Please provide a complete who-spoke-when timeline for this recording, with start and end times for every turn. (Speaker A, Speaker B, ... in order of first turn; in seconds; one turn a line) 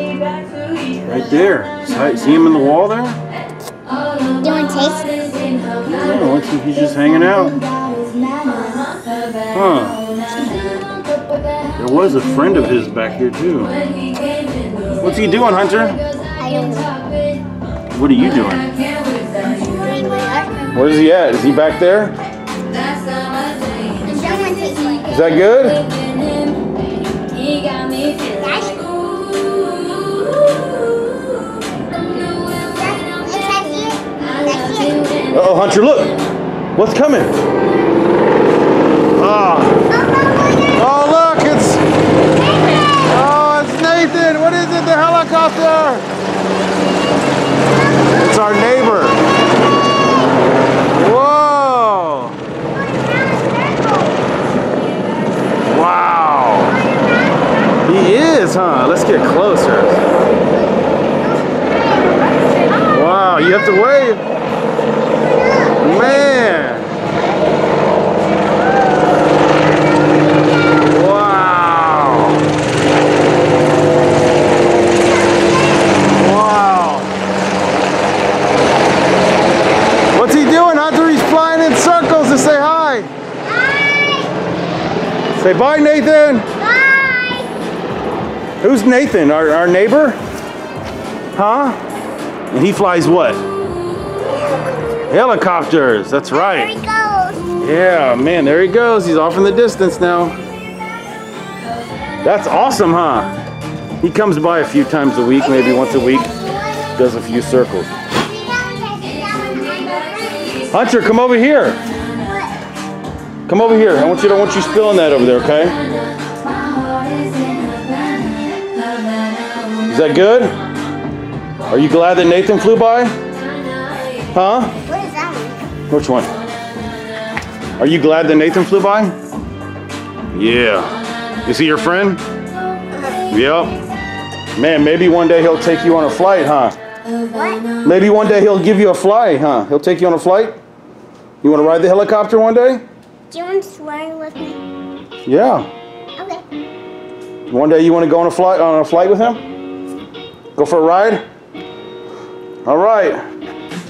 Speaker A: 0.9-3.2
Speaker B: 4.4-5.3
Speaker A: 5.9-7.6
Speaker A: 9.5-10.0
Speaker A: 11.8-13.7
Speaker A: 14.9-16.0
Speaker B: 16.4-17.0
Speaker A: 17.9-18.7
Speaker B: 19.6-20.8
Speaker A: 20.7-22.1
Speaker B: 24.0-25.2
Speaker A: 25.1-25.8
Speaker B: 28.2-28.9
Speaker B: 32.6-35.2
Speaker A: 35.3-36.2
Speaker A: 36.8-37.3
Speaker A: 39.2-39.9
Speaker B: 39.9-41.0
Speaker A: 40.8-41.8
Speaker B: 42.3-43.1
Speaker A: 43.1-46.0
Speaker A: 48.1-49.2
Speaker A: 50.9-52.4
Speaker B: 52.7-54.3
Speaker A: 55.6-56.8
Speaker B: 56.7-57.5
Speaker A: 57.9-60.0
Speaker B: 60.4-63.8
Speaker A: 62.9-64.2
Speaker B: 65.0-66.3
Speaker A: 65.8-66.9
Speaker B: 70.1-71.0
Speaker A: 70.9-72.4
Speaker A: 76.1-77.1
Speaker A: 80.1-83.1
Speaker B: 83.4-84.4
Speaker A: 85.4-86.5
Speaker B: 86.5-87.5
Speaker A: 88.6-90.2
Speaker A: 91.3-91.8
Speaker A: 92.5-93.4
Speaker A: 95.1-96.7
Speaker B: 96.3-97.5
Speaker A: 97.6-100.4
Speaker A: 102.2-103.3
Speaker A: 104.0-106.3
Speaker B: 105.3-107.1
Speaker A: 107.0-107.9
Speaker B: 108.1-110.7
Speaker A: 110.7-111.8
Speaker B: 112.2-112.6
Speaker A: 113.5-115.8
Speaker A: 119.9-120.6
Speaker A: 121.7-123.1
Speaker A: 124.3-124.7
Speaker B: 124.9-125.6
Speaker A: 125.9-126.3
Speaker A: 127.8-129.2
Speaker A: 130.3-132.2
Speaker B: 132.9-133.3
Speaker A: 133.3-133.8
Speaker A: 134.6-136.8
Speaker B: 137.3-137.8
Speaker A: 137.8-140.6
Speaker A: 141.4-142.8
Speaker B: 143.3-144.6
Speaker A: 145.3-145.7
Speaker B: 146.2-146.4
Speaker A: 147.5-149.4
Speaker A: 150.6-151.2
Speaker A: 152.7-153.2